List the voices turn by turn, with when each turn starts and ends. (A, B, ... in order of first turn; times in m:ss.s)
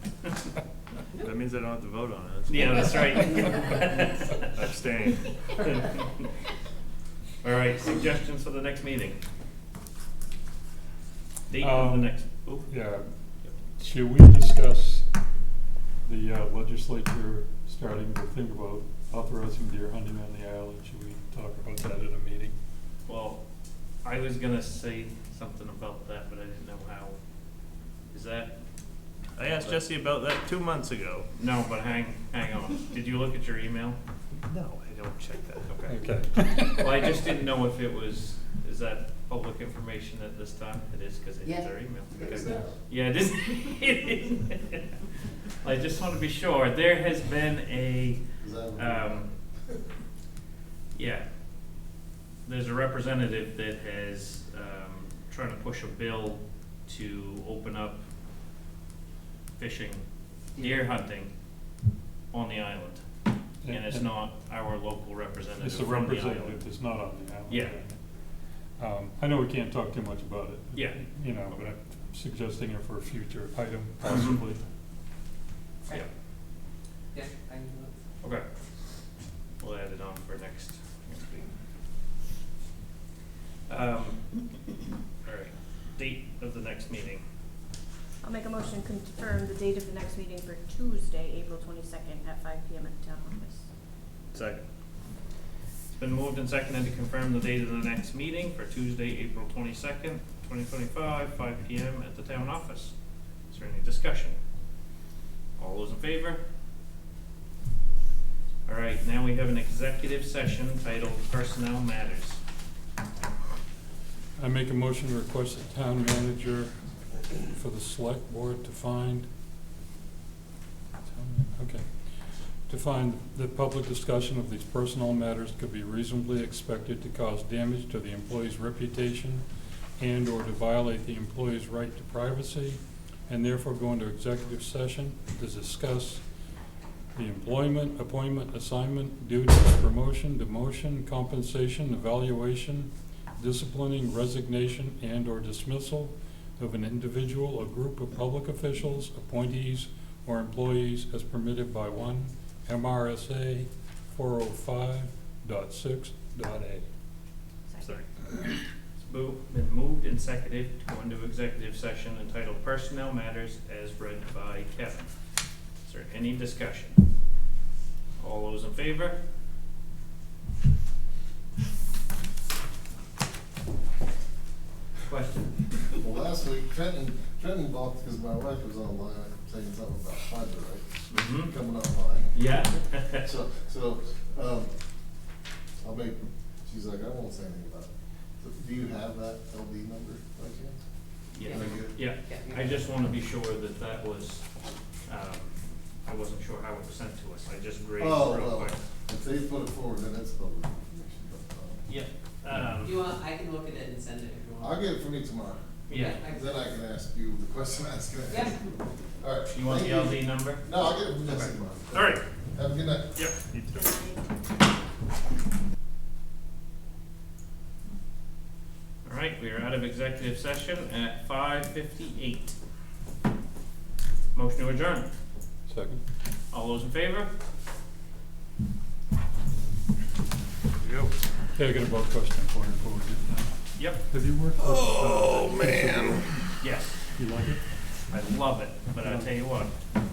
0:01.2-0:03.6 A
0:02.5-0:04.5 B
0:04.5-0:05.7 A
0:05.6-0:06.3 B
0:07.4-0:09.2 B
0:11.5-0:12.7 B
0:11.6-0:12.1 C
0:12.7-0:13.0 C
0:13.8-0:15.0 C
0:16.0-0:22.5 C
0:23.1-0:23.4 B
0:24.0-0:27.2 B
0:28.1-0:28.6 B
0:29.4-0:31.3 A
0:29.6-0:29.8 B
0:31.3-0:34.0 B
0:34.4-0:35.7 A
0:35.7-0:36.0 B
0:35.9-0:36.9 C
0:36.8-0:45.0 B
0:42.2-0:42.7 D
0:45.6-0:48.2 B
0:48.4-0:49.3 D
0:48.8-0:49.3 B
0:51.0-0:51.3 B
0:52.4-0:58.0 B
0:59.6-1:00.0 B
1:00.6-1:01.3 B
1:02.3-1:03.0 B
1:03.6-1:04.1 C
1:03.7-1:06.6 B
1:05.6-1:08.0 C
1:07.5-1:07.8 B
1:08.8-1:14.6 C
1:10.7-1:11.7 B
1:14.0-1:14.4 B
1:17.1-1:17.9 E
1:19.6-1:21.5 B
1:23.7-1:24.3 B
1:25.2-1:27.2 B
1:28.2-1:33.7 F
1:34.3-1:34.6 A
1:35.9-1:43.0 B
1:43.5-1:44.4 B
1:45.6-1:46.4 B
1:48.7-1:52.4 B
1:54.4-1:56.7 C
1:57.4-1:59.3 C
2:01.1-2:02.0 C
2:02.7-2:09.4 C
2:10.0-2:16.2 C
2:17.2-2:36.8 C
2:39.0-2:45.1 B
2:45.8-2:47.0 B
2:48.2-2:49.2 B
2:55.0-2:55.9 B
2:56.0-3:02.4 D
3:01.1-3:01.5 B
3:02.3-3:03.3 B
3:03.1-3:04.7 D
3:05.8-3:07.9 D
3:08.4-3:10.8 D
3:11.3-3:14.4 B
3:11.4-3:12.0 D
3:15.1-3:18.8 B
3:18.0-3:21.8 D
3:21.9-3:23.0 B
3:22.8-3:24.7 E
3:24.6-3:33.1 D
3:25.9-3:26.2 B
3:26.0-3:26.5 E
3:29.5-3:32.2 B
3:33.5-3:33.9 C
3:39.0-3:42.6 B
3:44.3-3:45.1 B
3:45.7-3:46.0 C
3:46.5-3:47.3 B
3:50.8-3:51.1 A
3:51.5-3:56.4 C
3:53.8-3:54.0 B
3:54.6-3:56.2 A
3:56.6-3:57.0 B
3:57.2-3:57.6 C
3:58.1-3:59.7 B
3:59.0-3:59.3 C